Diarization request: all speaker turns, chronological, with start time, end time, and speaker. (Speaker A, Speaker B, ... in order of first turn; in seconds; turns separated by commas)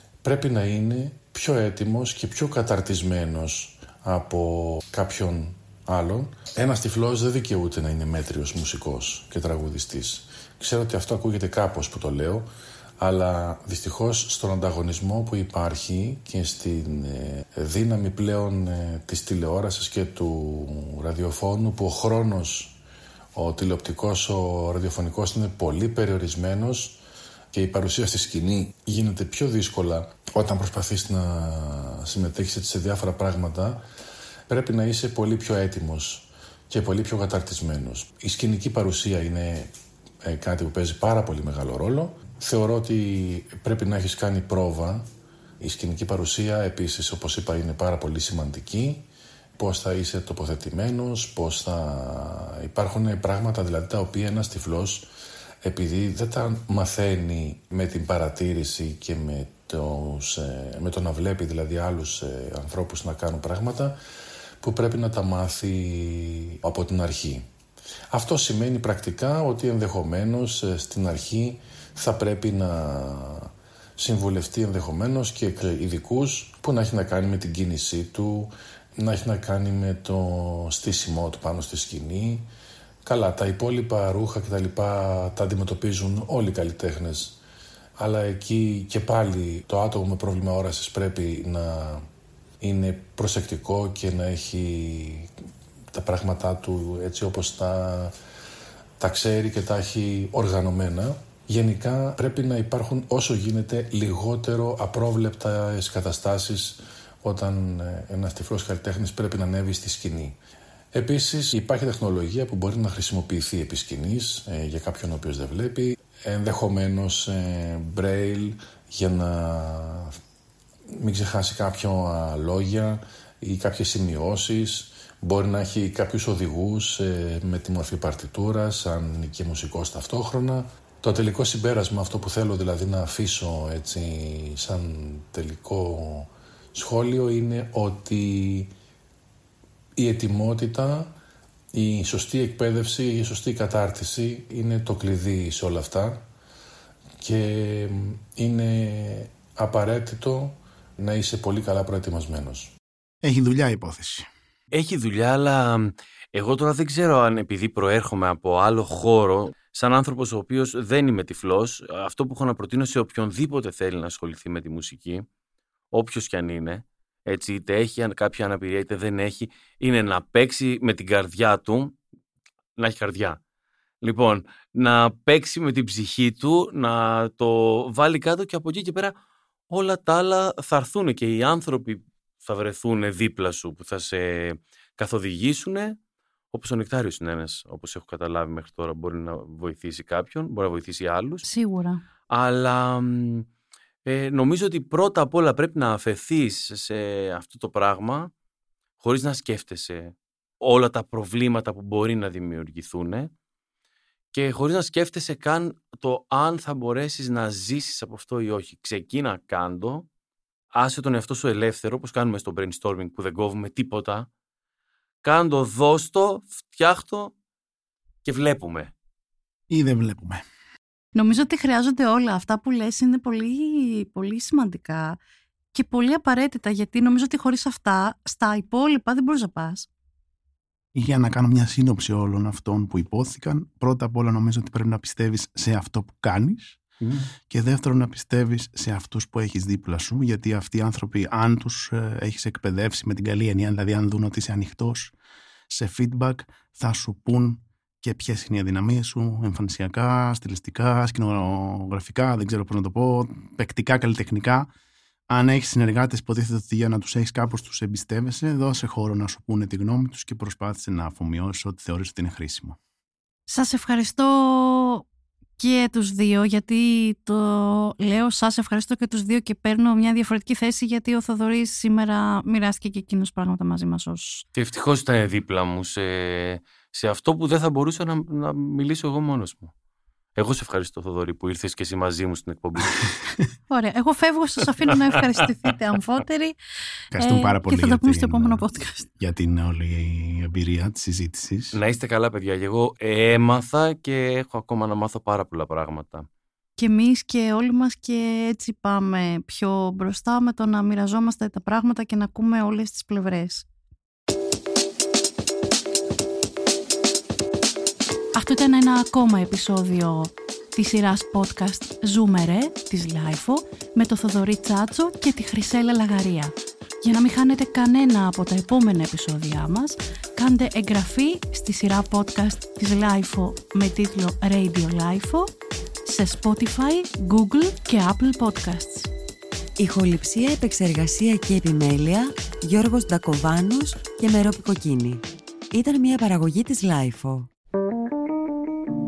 Speaker A: 0.2-12.5, Speaker A: 13.0-22.8, Speaker A: 23.4-27.0, Speaker A: 27.5-33.8, Speaker A: 34.5-39.7, Speaker A: 40.2-45.1, Speaker A: 45.6-49.0, Speaker A: 49.6-55.1, Speaker A: 55.6-64.0, Speaker A: 64.6-67.4, Speaker A: 68.1-82.5, Speaker A: 83.0-87.4, Speaker A: 88.0-92.0, Speaker A: 92.6-95.3, Speaker A: 95.9-98.1, Speaker A: 99.0-110.4, Speaker A: 110.9-120.2, Speaker A: 120.9-138.7, Speaker A: 140.0-141.2, Speaker A: 141.7-146.2, Speaker A: 147.2-152.7, Speaker B: 153.2-154.3, Speaker C: 154.7-165.2, Speaker C: 165.9-172.0, Speaker C: 172.8-173.4, Speaker C: 174.0-179.1, Speaker C: 179.7-186.0, Speaker C: 186.5-191.5, Speaker D: 191.5-192.0, Speaker C: 192.3-193.5, Speaker C: 194.1-198.3, Speaker C: 199.0-203.3, Speaker C: 204.3-210.1, Speaker C: 210.7-214.3, Speaker C: 215.2-217.3, Speaker C: 218.2-218.9, Speaker B: 219.7-220.4, Speaker D: 221.2-225.2, Speaker D: 225.7-229.9, Speaker B: 230.9-236.8, Speaker C: 237.0-237.3, Speaker B: 237.5-245.1, Speaker B: 245.7-254.7, Speaker B: 255.3-262.8, Speaker D: 263.5-265.0, Speaker D: 265.6-274.4, Speaker C: 274.6-279.7, Speaker C: 280.4-283.0, Speaker D: 283.7-286.6, Speaker B: 287.1-288.6, Speaker D: 287.1-289.1, Speaker B: 289.2-291.8, Speaker C: 291.7-296.3, Speaker D: 296.8-303.6, Speaker D: 308.3-325.5, Speaker D: 326.1-329.1, Speaker E: 329.8-337.5